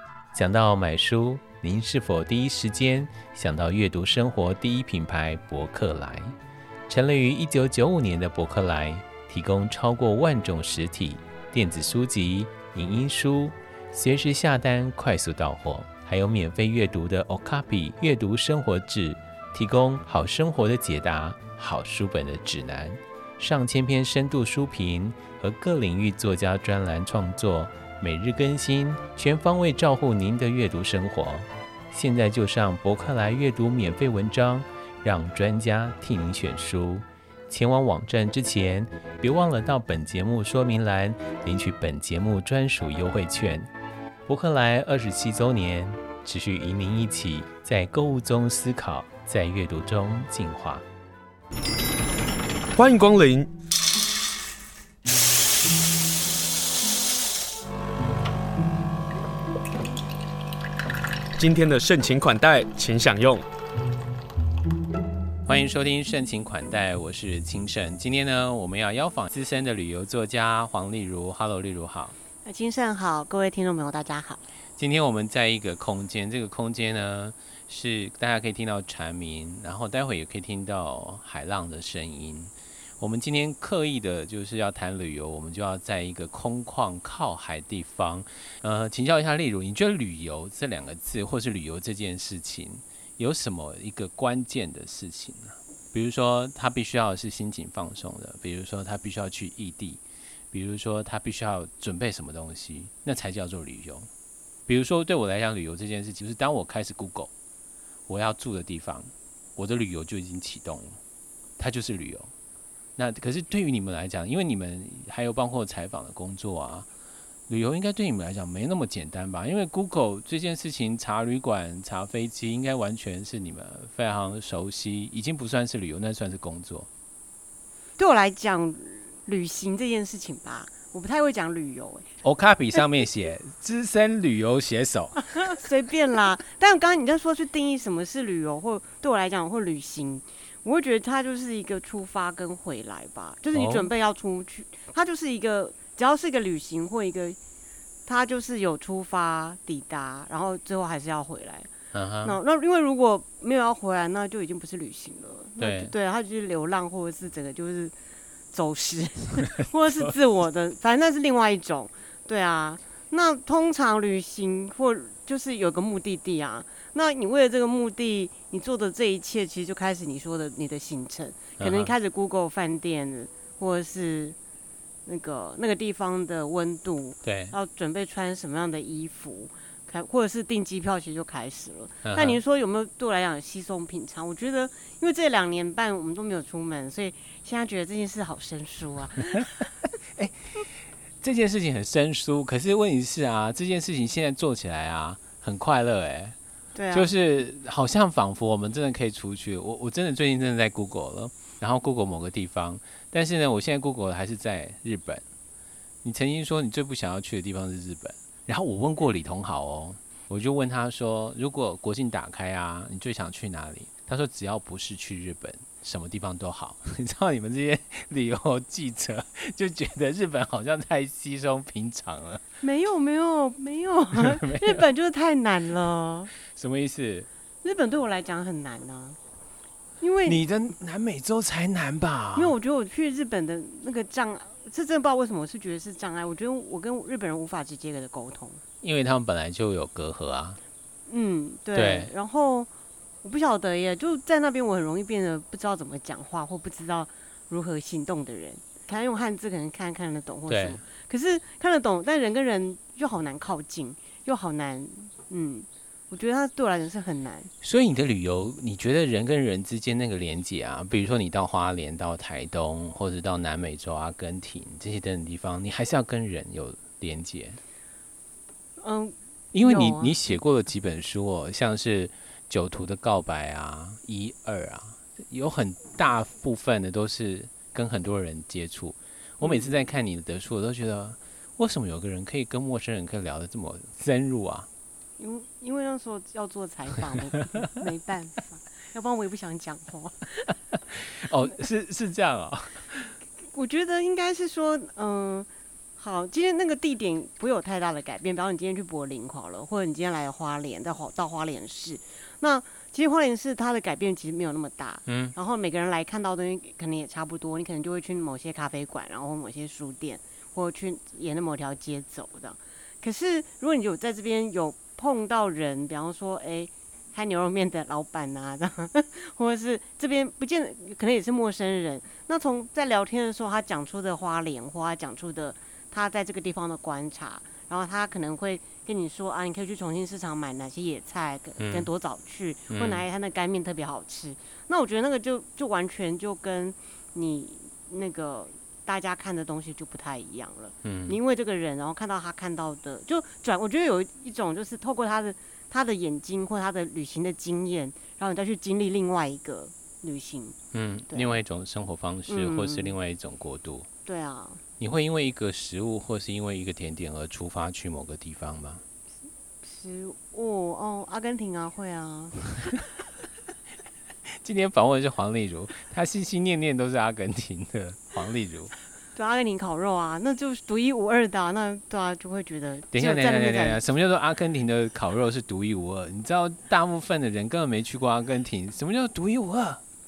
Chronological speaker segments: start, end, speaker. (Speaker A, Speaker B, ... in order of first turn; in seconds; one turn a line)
Speaker A: 0.3-6.4
Speaker A: 6.9-43.7
Speaker A: 44.3-50.9
Speaker B: 52.7-53.5
Speaker B: 61.4-63.5
Speaker A: 65.5-72.2
Speaker C: 72.5-74.4
Speaker A: 74.8-104.1
Speaker A: 104.7-107.3
Speaker A: 108.1-111.0
Speaker A: 111.6-112.3
Speaker A: 113.0-116.9
Speaker A: 117.5-126.9
Speaker C: 128.0-132.1
Speaker A: 132.2-135.5
Speaker C: 135.3-147.4
Speaker A: 143.5-143.9
Speaker C: 148.1-151.7
Speaker A: 151.9-152.4
Speaker C: 152.2-157.9
Speaker A: 155.6-155.9
Speaker C: 158.5-174.4
Speaker A: 171.6-171.9
Speaker C: 175.1-189.7
Speaker A: 177.2-177.5
Speaker A: 182.0-182.4
Speaker A: 190.1-196.4
Speaker C: 196.8-197.1
Speaker A: 196.9-205.2
Speaker A: 206.0-222.4
Speaker C: 222.6-226.3
Speaker A: 224.1-224.8
Speaker A: 226.5-227.3
Speaker C: 227.6-229.2
Speaker C: 230.0-230.4
Speaker A: 230.3-232.6
Speaker C: 232.3-238.6
Speaker A: 238.8-240.6
Speaker C: 241.1-242.7
Speaker A: 241.7-242.1
Speaker C: 243.2-257.5
Speaker A: 250.5-250.8
Speaker A: 257.6-267.6
Speaker C: 268.8-270.1
Speaker A: 269.5-284.7
Speaker C: 279.4-279.8
Speaker C: 285.2-290.5
Speaker A: 290.9-293.2
Speaker C: 293.5-350.6
Speaker A: 305.1-305.3
Speaker A: 331.6-331.9
Speaker A: 332.7-333.0
Speaker A: 340.8-341.2
Speaker A: 350.7-353.9
Speaker C: 351.1-351.4
Speaker C: 352.3-352.9
Speaker C: 354.1-354.6
Speaker A: 354.8-358.8
Speaker C: 359.6-362.8
Speaker A: 364.3-368.7
Speaker C: 369.1-373.9
Speaker A: 372.9-379.8